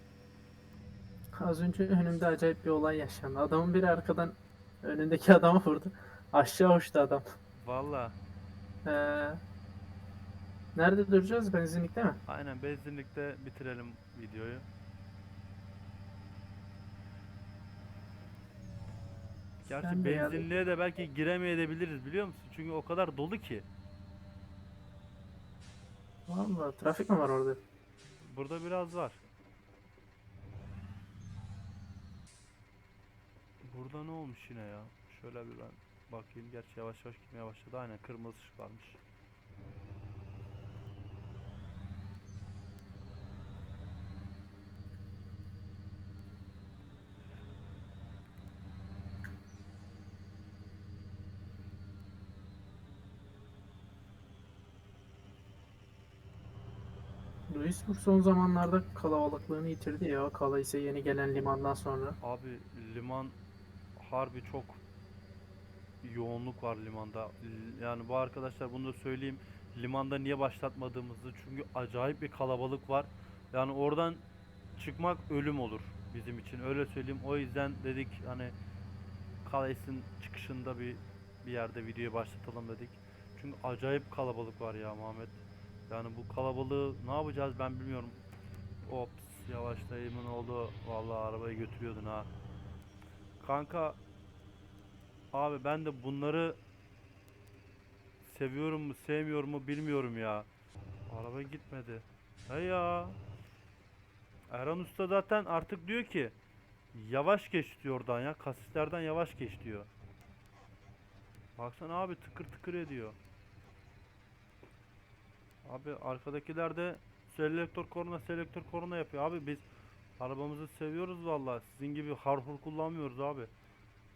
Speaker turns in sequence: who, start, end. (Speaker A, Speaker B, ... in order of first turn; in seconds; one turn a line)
Speaker A: 1.3-7.2
Speaker B: 7.6-8.2
Speaker A: 8.8-9.4
Speaker A: 10.8-12.2
Speaker B: 12.3-14.7
Speaker B: 19.6-23.6
Speaker A: 19.8-20.4
Speaker A: 26.3-27.6
Speaker B: 28.3-29.2
Speaker B: 33.6-39.0
Speaker A: 57.5-62.2
Speaker B: 62.2-63.4
Speaker B: 64.0-64.8
Speaker B: 66.0-74.2
Speaker B: 74.8-78.5
Speaker B: 79.4-88.2
Speaker B: 88.8-92.3
Speaker B: 93.4-94.0
Speaker B: 95.3-96.6
Speaker B: 98.2-100.5
Speaker B: 101.1-103.2
Speaker B: 104.5-106.3
Speaker B: 106.9-109.9
Speaker B: 111.6-113.2
Speaker B: 115.6-119.6
Speaker B: 120.2-123.5